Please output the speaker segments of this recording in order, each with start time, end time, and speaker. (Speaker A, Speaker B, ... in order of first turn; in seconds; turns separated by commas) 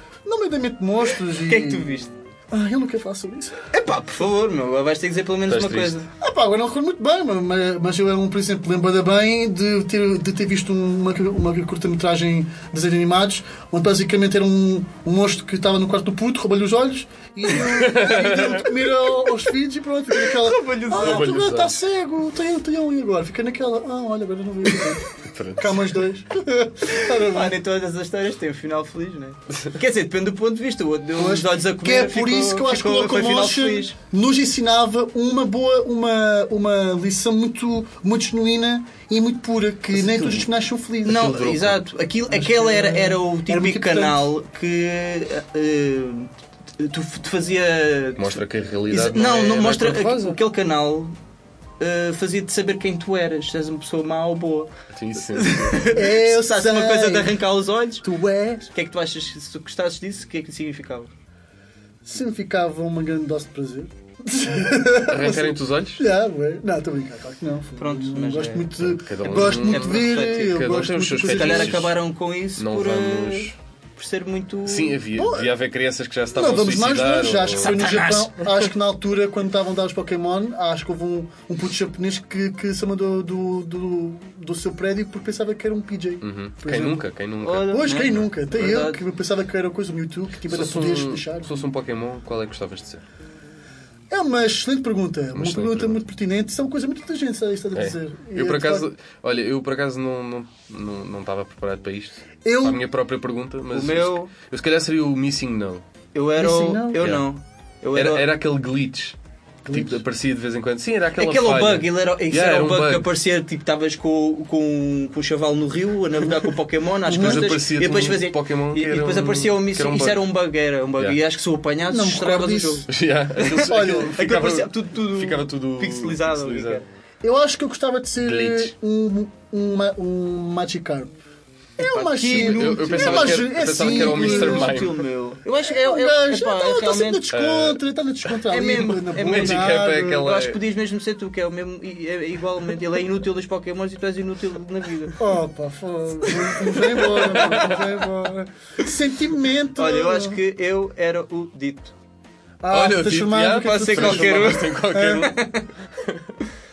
Speaker A: 0.2-3.5, Speaker B: 1.4-2.1, Speaker B: 3.7-6.0, Speaker C: 5.5-6.0, Speaker A: 6.2-25.0, Speaker C: 17.7-18.6, Speaker B: 20.4-21.3, Speaker C: 20.9-21.8, Speaker C: 25.3-25.9, Speaker A: 25.6-27.6, Speaker B: 26.9-34.0, Speaker A: 31.1-41.7, Speaker C: 40.0-40.5, Speaker B: 41.0-51.1, Speaker C: 41.2-41.7, Speaker A: 42.3-44.3, Speaker C: 48.1-50.4, Speaker B: 51.8-54.7, Speaker C: 54.9-55.9, Speaker B: 55.3-58.0, Speaker A: 55.9-57.4, Speaker A: 58.0-58.7, Speaker B: 58.7-61.1, Speaker A: 62.0-71.8, Speaker C: 65.0-66.0, Speaker B: 67.8-70.4, Speaker C: 69.0-72.0, Speaker B: 71.3-75.0, Speaker C: 72.5-73.5, Speaker C: 74.7-77.9, Speaker A: 75.1-75.5, Speaker A: 76.3-87.0, Speaker B: 77.6-78.4, Speaker C: 86.2-88.2, Speaker B: 87.4-89.0, Speaker A: 87.7-91.5, Speaker C: 90.5-93.0, Speaker A: 94.1-98.8, Speaker C: 95.3-96.0, Speaker C: 97.7-105.8, Speaker A: 102.4-102.8, Speaker B: 103.7-104.3, Speaker B: 106.1-108.2, Speaker A: 106.4-107.0, Speaker C: 107.0-107.2, Speaker C: 107.9-109.2, Speaker A: 109.7-110.0, Speaker C: 109.7-113.1, Speaker B: 111.2-126.8, Speaker A: 117.0-117.6, Speaker C: 117.1-120.2, Speaker A: 121.9-122.9, Speaker C: 122.9-126.8, Speaker A: 123.6-124.1, Speaker A: 127.2-131.2, Speaker C: 128.2-128.7, Speaker A: 131.8-134.9, Speaker B: 131.8-137.2, Speaker C: 132.3-135.0, Speaker A: 135.6-140.3, Speaker C: 137.3-137.8, Speaker B: 138.5-145.2, Speaker C: 139.1-140.6, Speaker A: 145.2-150.4, Speaker B: 146.9-147.6, Speaker B: 149.8-151.9, Speaker A: 152.6-155.3, Speaker C: 152.7-155.4, Speaker B: 153.6-155.7